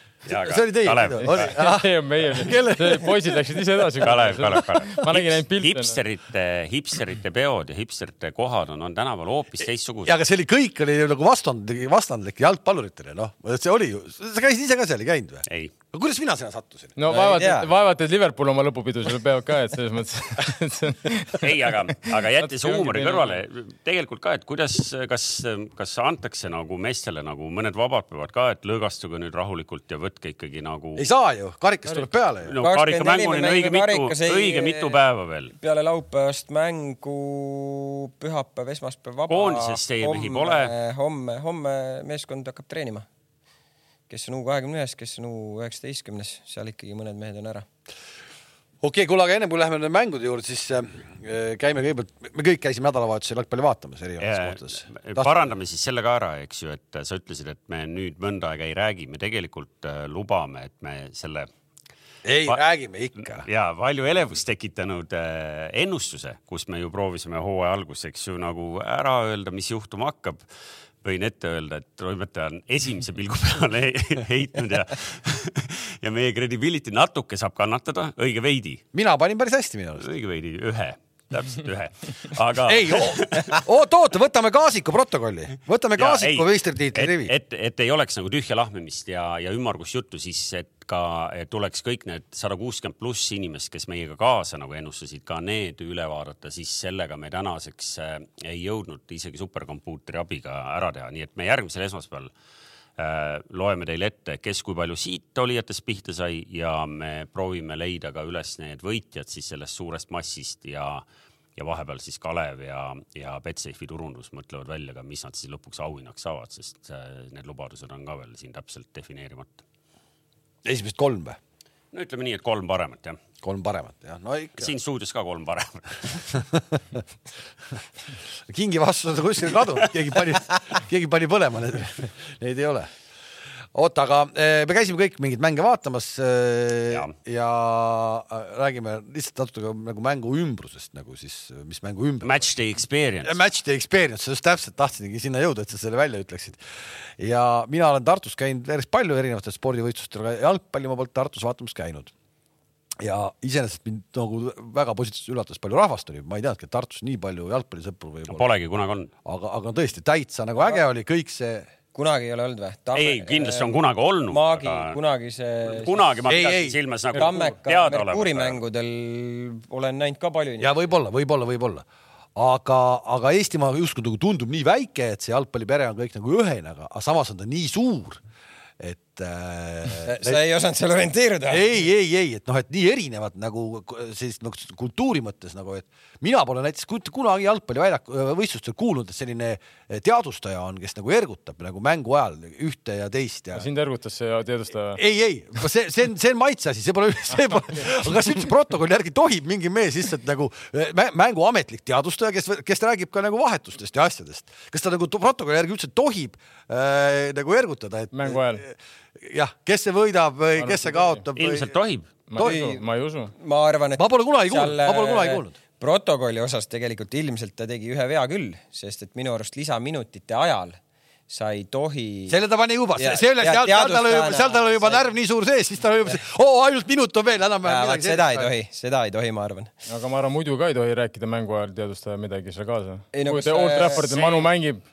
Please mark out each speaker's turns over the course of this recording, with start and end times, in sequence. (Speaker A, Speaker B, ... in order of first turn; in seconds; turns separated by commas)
Speaker A: 0.3-1.6, Speaker B: 0.3-3.5, Speaker C: 1.2-6.0, Speaker A: 4.0-10.2, Speaker B: 10.1-17.0, Speaker A: 15.5-15.7, Speaker C: 17.0-21.7, Speaker D: 17.1-17.7, Speaker A: 21.4-31.1, Speaker C: 22.3-23.4, Speaker B: 31.0-32.5, Speaker A: 32.5-35.5, Speaker D: 32.6-35.0, Speaker D: 35.5-43.1, Speaker A: 39.3-40.7, Speaker D: 44.1-47.7, Speaker B: 48.8-55.4, Speaker A: 54.2-61.5, Speaker B: 62.2-63.5, Speaker A: 63.4-70.4, Speaker A: 71.0-78.8, Speaker B: 78.9-80.1, Speaker A: 80.0-83.6, Speaker B: 82.7-87.3, Speaker A: 86.0-102.3, Speaker A: 103.0-111.0, Speaker A: 111.6-119.6, Speaker B: 120.6-121.4, Speaker A: 121.9-123.2, Speaker B: 123.4-124.7, Speaker A: 124.6-126.4, Speaker B: 126.3-127.0, Speaker B: 128.3-132.9, Speaker B: 133.7-142.5, Speaker A: 142.2-143.4, Speaker B: 143.2-146.6, Speaker B: 147.2-152.1, Speaker B: 153.0-158.4, Speaker A: 158.3-159.1, Speaker B: 159.2-161.7, Speaker D: 161.9-163.8, Speaker A: 162.9-165.0, Speaker D: 164.3-166.0, Speaker A: 165.7-168.6, Speaker B: 166.3-167.3, Speaker D: 167.1-170.7, Speaker B: 170.6-178.2, Speaker B: 178.8-180.4, Speaker D: 180.0-181.7, Speaker B: 181.5-193.7, Speaker C: 193.6-195.0, Speaker B: 194.9-211.7, Speaker C: 208.1-208.6, Speaker C: 210.6-211.2, Speaker A: 211.4-212.1, Speaker C: 212.3-213.3, Speaker B: 212.4-212.7, Speaker D: 212.4-212.8, Speaker D: 213.4-220.8, Speaker B: 214.0-215.6, Speaker D: 221.3-222.4, Speaker B: 222.3-228.5, Speaker D: 223.0-225.1, Speaker D: 227.7-229.7, Speaker C: 229.9-234.8, Speaker D: 233.1-234.5